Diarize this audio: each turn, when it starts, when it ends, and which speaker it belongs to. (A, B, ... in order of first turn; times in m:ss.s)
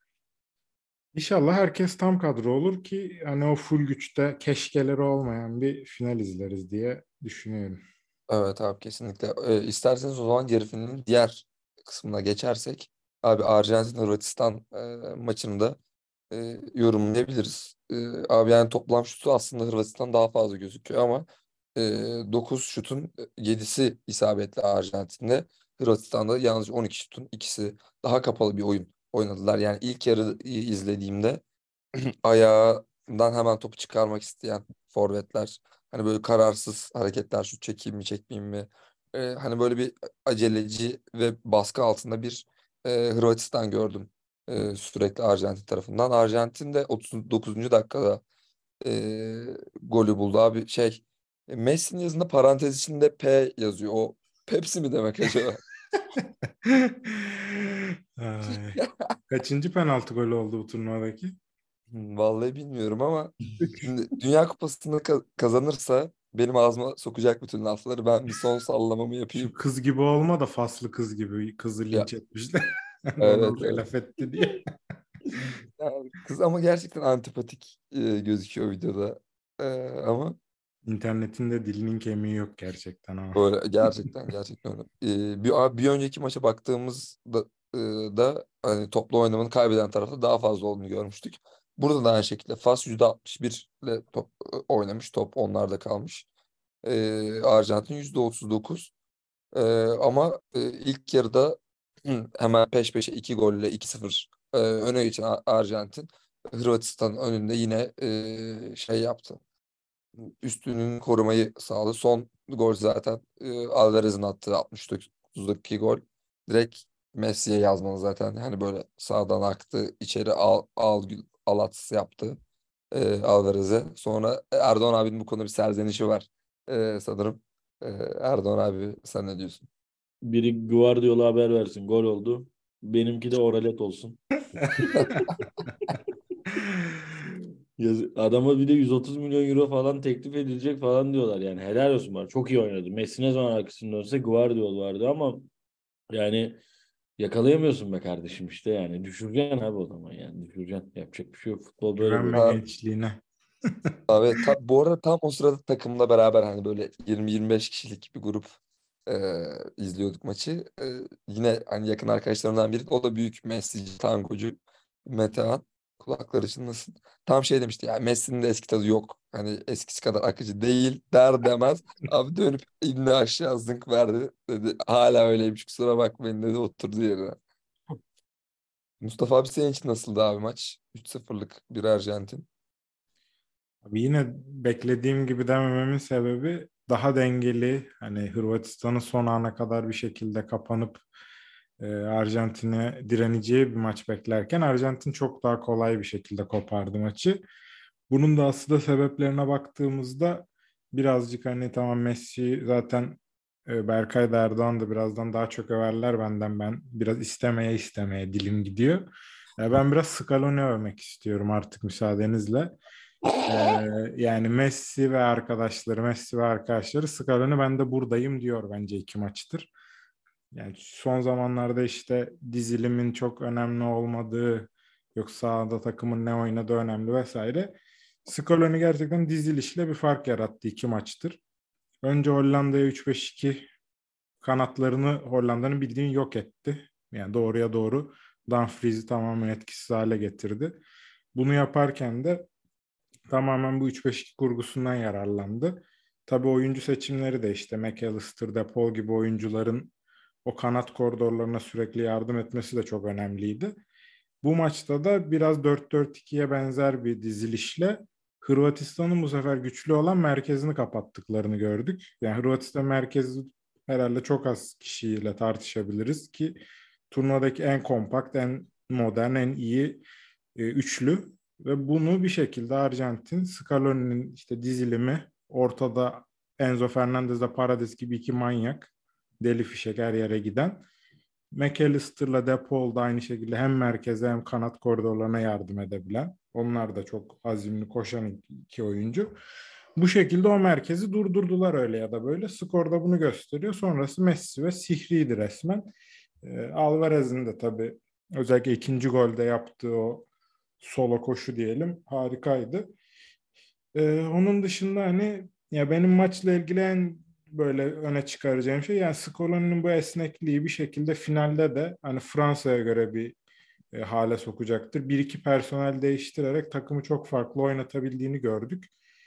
0:01.1-0:07.8 A
0:08.3-0:15.8 B
0:16.3-0:31.4 B
0:32.0-0:48.2 B
0:48.8-0:55.6 B
0:56.6-1:01.3 A
1:01.9-1:09.5 B
1:09.4-1:14.7 A
1:13.2-1:13.8 B
1:15.8-1:20.4 B
1:20.8-1:23.4 A
1:23.3-1:36.3 B
1:36.8-1:38.9 B
1:39.5-1:49.4 B
1:50.2-2:02.4 B
2:02.9-2:09.6 B
2:10.2-2:15.0 C
2:17.8-2:25.5 C
2:26.1-2:26.6 C
2:27.2-2:32.5 C
2:32.0-2:33.2 A
2:32.3-2:32.6 B
2:34.1-2:38.6 B
2:39.1-2:57.4 B
2:59.0-3:02.5 B
3:03.8-3:11.0 A
3:11.8-3:17.4 A
3:18.1-3:29.0 A
3:29.6-3:32.8 A
3:33.5-3:39.7 A
3:40.5-3:51.4 A
3:52.0-3:53.7 A
3:54.4-4:00.8 A
4:01.4-4:02.5 A
4:03.3-4:09.9 A
4:10.4-4:13.8 A
4:14.4-4:30.0 A
4:30.6-4:40.8 A
4:41.5-4:49.4 A
4:50.0-4:55.9 A
4:56.4-5:00.3 A
5:00.8-5:02.9 A
5:03.9-5:13.4 A
5:13.9-5:18.9 A